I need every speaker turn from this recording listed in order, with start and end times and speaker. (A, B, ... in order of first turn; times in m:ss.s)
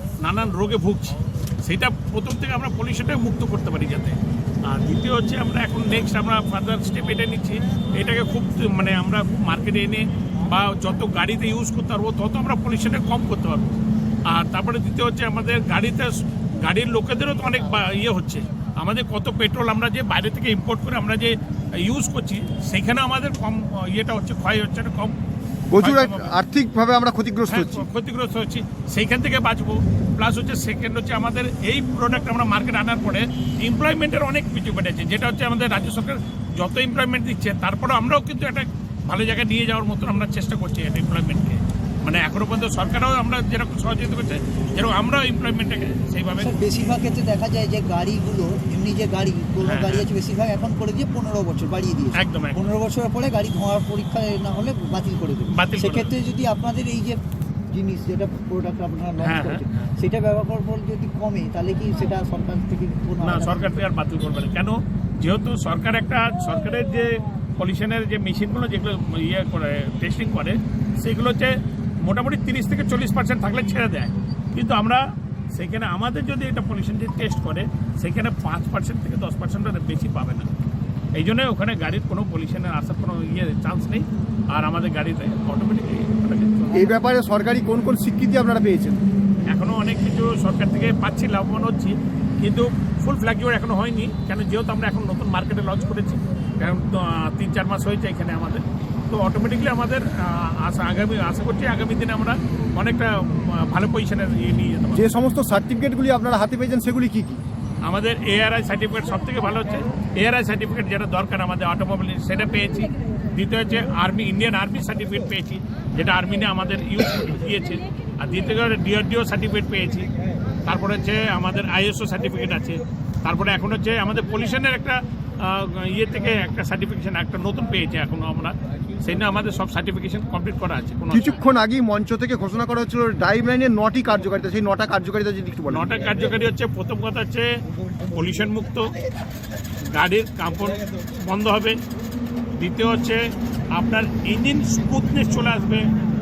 0:00.2-0:13.7 A
0:14.3-0:25.2 A
0:25.7-0:27.9 B
0:25.8-0:26.4 A
0:27.5-0:46.6 A
0:46.4-1:03.8 C
0:49.6-0:50.1 A
0:52.2-0:52.6 A
0:55.5-0:56.1 A
0:59.2-0:59.7 A
1:03.2-1:15.0 A
1:15.5-1:20.5 A
1:21.2-1:26.9 A
1:26.7-1:29.0 B
1:29.5-1:45.0 A
1:44.9-1:47.4 B
1:47.8-2:00.1 A
2:00.7-2:11.4 A
2:11.1-2:16.0 B
2:15.7-2:17.5 A
2:18.0-2:18.9 A
2:19.9-2:21.8 A
2:22.5-2:23.2 A
2:23.7-2:25.9 A